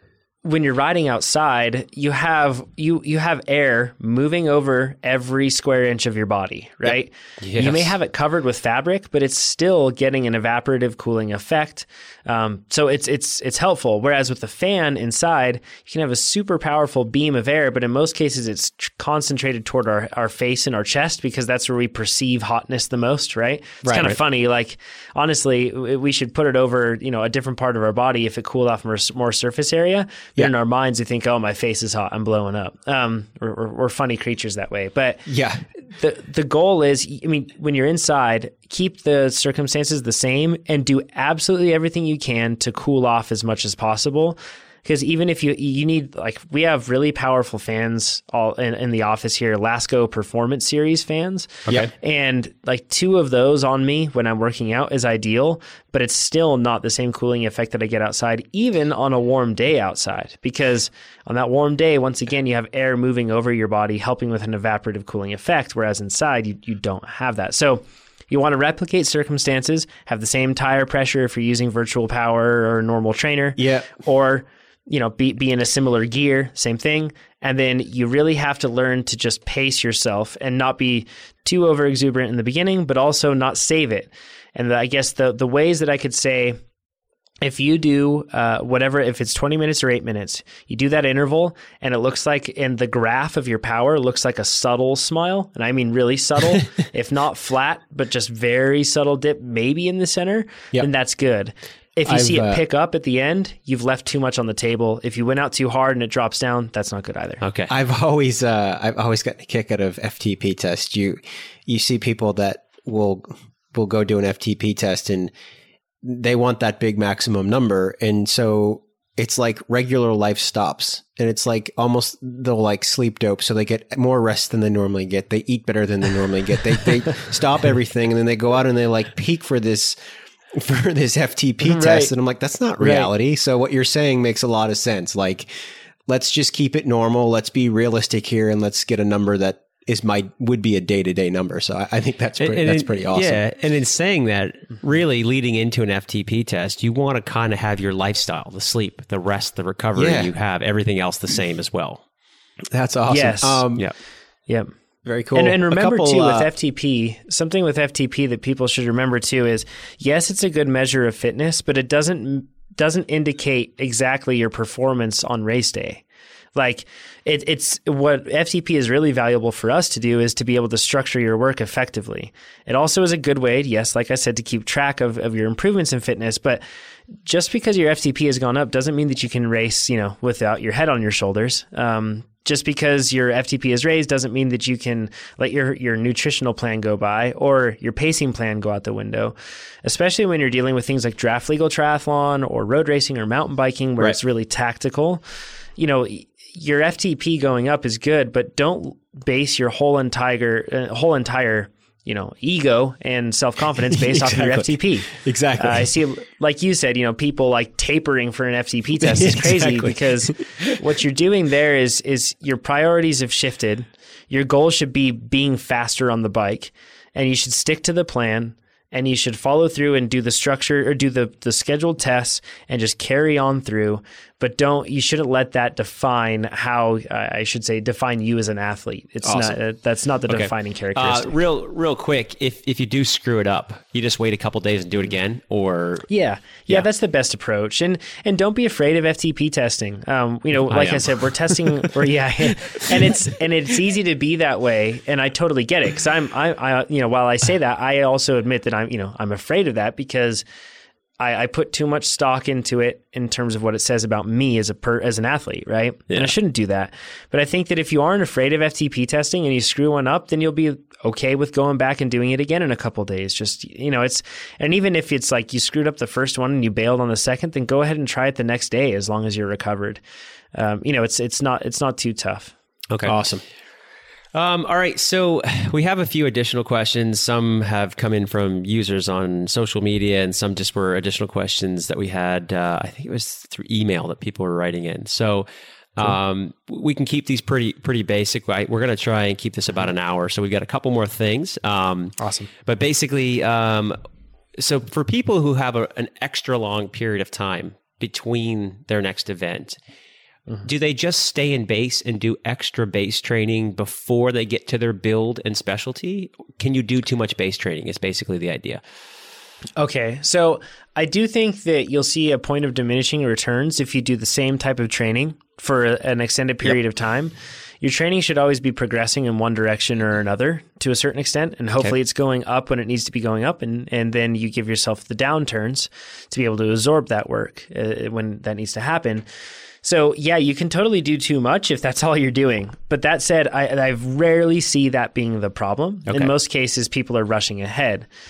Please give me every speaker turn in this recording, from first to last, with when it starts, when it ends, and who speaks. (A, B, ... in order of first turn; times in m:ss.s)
0:00.4-0:35.2 A
0:07.4-0:07.9 B
0:23.8-0:24.2 C
0:35.2-0:35.6 C
0:36.0-1:26.6 A
1:13.6-1:13.9 C
1:27.4-1:47.4 A
1:42.0-1:42.6 C
1:47.4-1:47.7 B
1:47.7-1:55.3 C
1:56.0-2:10.0 C
2:10.5-2:15.5 C
2:11.6-2:12.1 A
2:12.8-2:13.1 A
2:16.1-2:23.4 C
2:22.4-2:32.0 B
2:30.0-2:30.3 C
2:32.7-2:33.9 C
2:33.1-2:33.6 A
2:35.0-2:36.5 C
2:35.3-2:46.0 A
2:46.5-3:15.2 A
3:15.8-3:51.3 A
3:24.0-3:25.9 C
3:29.0-3:30.8 C
3:49.2-3:49.5 C
3:50.3-3:56.1 B
3:56.1-4:10.4 A
4:00.7-4:01.2 B
4:11.2-4:30.0 A
4:30.5-4:32.5 A
4:32.9-4:33.2 B
4:33.0-4:33.4 C
4:34.3-4:54.0 B
4:52.2-4:52.5 A
4:54.6-4:59.8 B
5:00.6-5:08.8 B
5:09.8-5:29.2 A
5:29.8-5:38.1 A